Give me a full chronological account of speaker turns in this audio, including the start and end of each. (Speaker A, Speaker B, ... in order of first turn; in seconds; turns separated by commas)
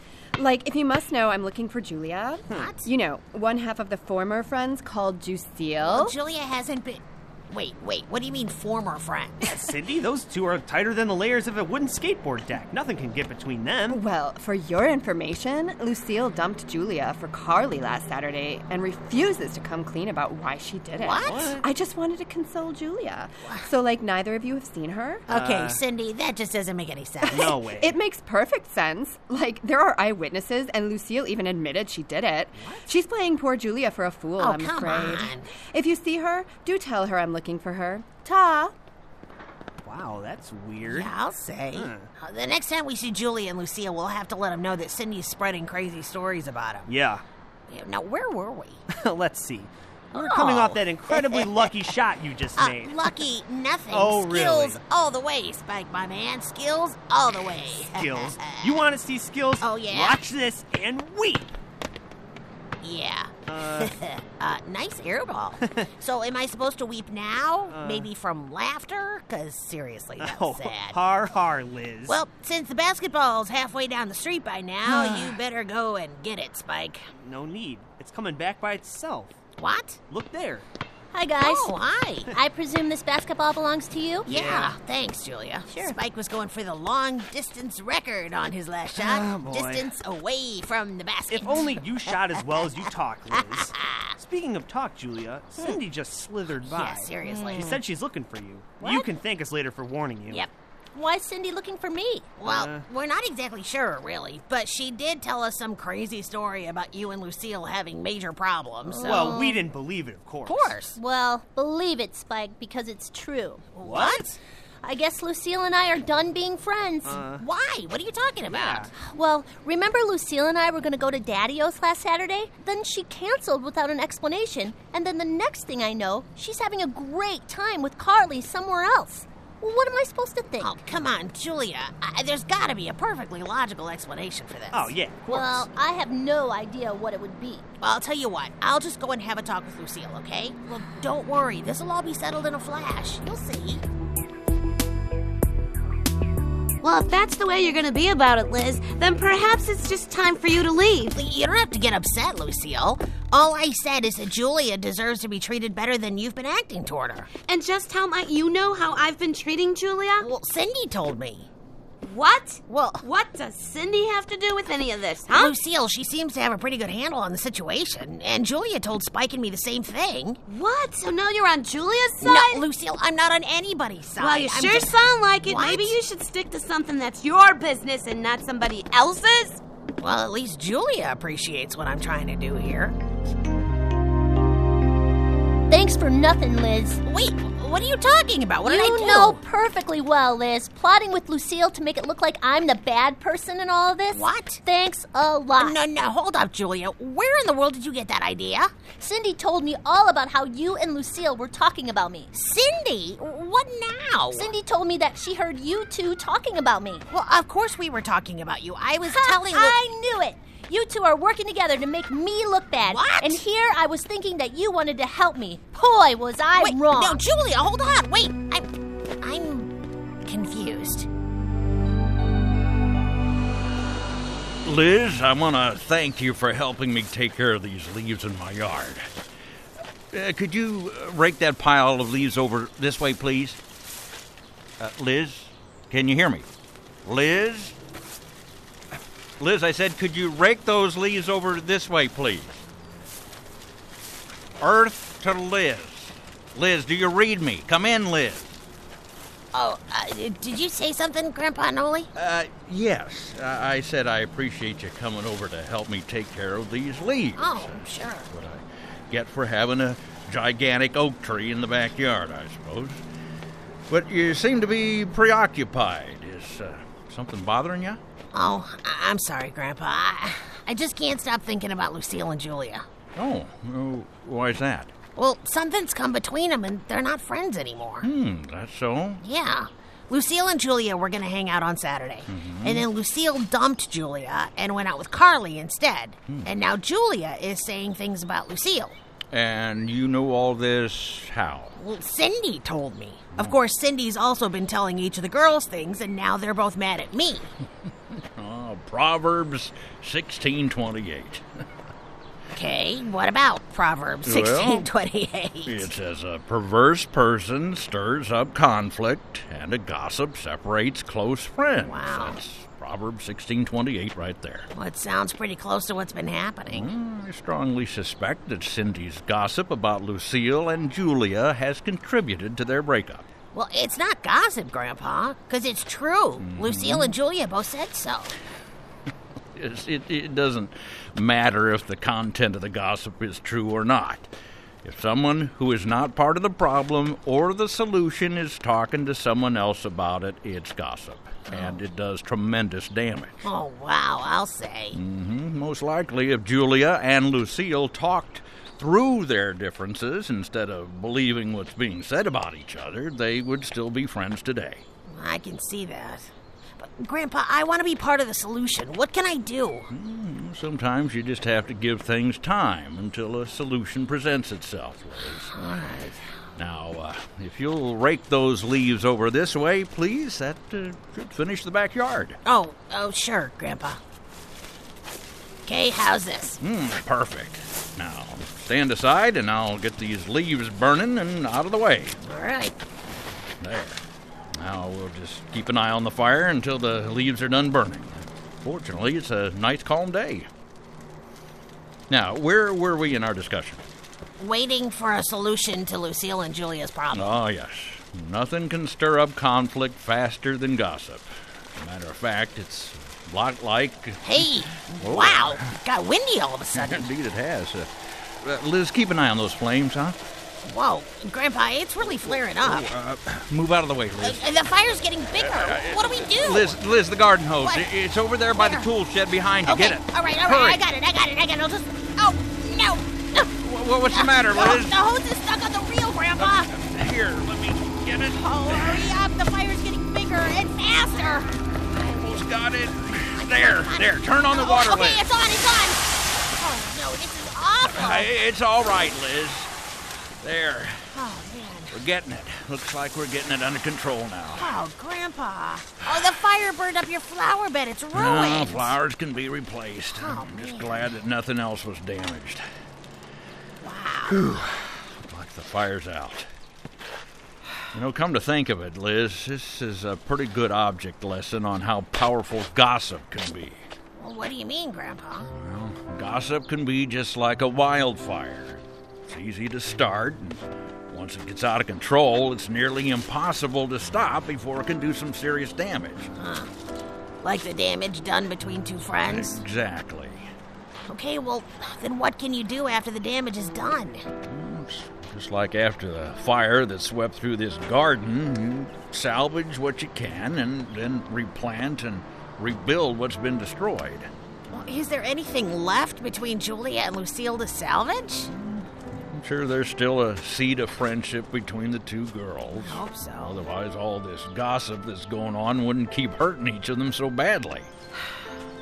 Speaker A: 0.4-6.2, Speaker B: 2.5-2.9, Speaker B: 5.8-9.8, Speaker C: 9.5-14.0, Speaker A: 13.9-25.2, Speaker B: 21.0-21.6, Speaker C: 21.2-21.6, Speaker B: 23.4-23.7, Speaker B: 25.3-27.6, Speaker C: 25.3-25.8, Speaker A: 27.3-38.7, Speaker C: 27.3-28.0, Speaker B: 34.4-35.5, Speaker C: 39.8-41.1, Speaker B: 40.9-46.9, Speaker C: 41.7-42.1, Speaker C: 46.9-47.2, Speaker B: 47.7-48.8, Speaker C: 48.9-53.2, Speaker B: 50.1-51.7, Speaker B: 52.6-58.9, Speaker C: 53.9-54.8, Speaker C: 57.8-61.5, Speaker B: 59.6-60.2, Speaker B: 62.8-71.0, Speaker C: 63.5-63.9, Speaker C: 67.7-68.1, Speaker C: 70.2-72.2, Speaker B: 72.1-77.0, Speaker C: 74.8-75.4, Speaker C: 77.2-79.4, Speaker B: 79.6-80.0, Speaker C: 80.1-80.7, Speaker D: 81.1-81.7, Speaker B: 81.4-82.3, Speaker D: 82.3-84.3, Speaker C: 84.3-84.8, Speaker B: 84.3-94.2, Speaker D: 85.7-86.0, Speaker C: 88.9-89.9, Speaker C: 91.3-100.4, Speaker B: 96.6-97.8, Speaker D: 97.2-97.8, Speaker D: 98.8-99.1, Speaker D: 100.9-102.3, Speaker B: 102.4-109.4, Speaker C: 102.4-102.9, Speaker D: 108.9-109.7, Speaker C: 109.0-110.8, Speaker B: 110.5-111.0, Speaker D: 110.8-113.7, Speaker B: 113.8-114.4, Speaker C: 113.8-114.3, Speaker D: 114.8-117.2, Speaker C: 117.0-117.4, Speaker B: 117.4-118.9, Speaker C: 118.5-118.9, Speaker D: 119.0-130.8, Speaker B: 130.6-135.7, Speaker C: 134.7-135.2, Speaker D: 135.3-137.7, Speaker B: 137.8-143.8, Speaker E: 146.8-151.2, Speaker B: 151.2-157.3, Speaker E: 157.5-160.3, Speaker B: 160.2-161.5, Speaker E: 162.0-165.6, Speaker B: 162.7-163.0, Speaker B: 165.3-170.4, Speaker E: 170.5-172.7, Speaker B: 172.2-176.0, Speaker E: 174.2-179.6, Speaker B: 180.0-183.0, Speaker D: 185.7-187.0, Speaker B: 187.0-189.4, Speaker D: 188.6-195.8, Speaker B: 194.1-194.6, Speaker B: 195.6-198.7, Speaker D: 199.0-202.3, Speaker B: 202.3-204.5, Speaker D: 204.3-207.1, Speaker B: 207.1-209.8, Speaker D: 209.1-217.2, Speaker B: 212.9-213.4, Speaker B: 216.6-221.1, Speaker F: 224.6-229.1, Speaker F: 230.1-233.6, Speaker F: 234.8-236.5, Speaker F: 237.1-237.8, Speaker F: 239.4-242.6, Speaker F: 244.6-248.5, Speaker B: 249.5-252.1, Speaker F: 252.2-263.0, Speaker B: 257.4-258.3, Speaker F: 263.9-268.0, Speaker B: 268.3-272.9, Speaker F: 273.2-274.9, Speaker B: 275.2-278.1, Speaker F: 278.0-279.2, Speaker B: 279.2-289.0, Speaker F: 282.3-282.9, Speaker F: 289.3-291.8, Speaker B: 291.8-297.5, Speaker F: 298.1-301.4, Speaker B: 302.5-305.9, Speaker F: 304.3-304.9, Speaker F: 305.7-314.7, Speaker B: 311.8-312.4, Speaker B: 314.7-316.9, Speaker F: 316.7-323.3, Speaker B: 323.5-328.4, Speaker F: 326.4-327.2, Speaker F: 329.6-334.3, Speaker F: 334.8-343.4, Speaker B: 341.5-341.8, Speaker B: 343.4-345.0, Speaker F: 344.9-354.8, Speaker B: 355.1-359.9, Speaker F: 359.9-365.5, Speaker B: 365.4-366.2, Speaker F: 366.6-372.4, Speaker B: 372.4-374.0, Speaker B: 375.7-376.6, Speaker F: 376.6-382.2, Speaker B: 382.2-382.8, Speaker F: 383.6-384.0, Speaker F: 384.6-390.5, Speaker F: 392.1-393.8, Speaker B: 394.4-397.4, Speaker F: 397.1-405.6, Speaker B: 404.2-407.1, Speaker F: 406.8-407.9, Speaker F: 408.4-410.2, Speaker B: 410.6-412.9, Speaker F: 412.2-414.5, Speaker B: 414.2-416.8, Speaker F: 415.3-420.8, Speaker B: 417.6-417.9, Speaker B: 418.5-418.9, Speaker B: 419.6-423.5, Speaker F: 423.6-425.0, Speaker B: 424.1-426.7, Speaker F: 426.4-429.1, Speaker B: 428.3-431.5, Speaker F: 431.9-435.2, Speaker B: 433.4-438.3, Speaker F: 437.9-439.7, Speaker F: 440.4-441.1, Speaker B: 441.1-442.0, Speaker F: 441.9-444.8, Speaker B: 444.5-449.0, Speaker F: 448.1-452.6, Speaker B: 450.0-451.1, Speaker B: 453.8-454.5, Speaker F: 454.3-456.5, Speaker F: 457.9-463.8, Speaker B: 464.1-465.5, Speaker F: 465.5-476.3, Speaker B: 476.3-476.7, Speaker B: 477.4-479.6, Speaker F: 479.2-480.4, Speaker B: 481.1-484.3, Speaker F: 484.5-494.3, Speaker B: 494.7-498.5, Speaker F: 498.5-507.9, Speaker B: 502.7-503.6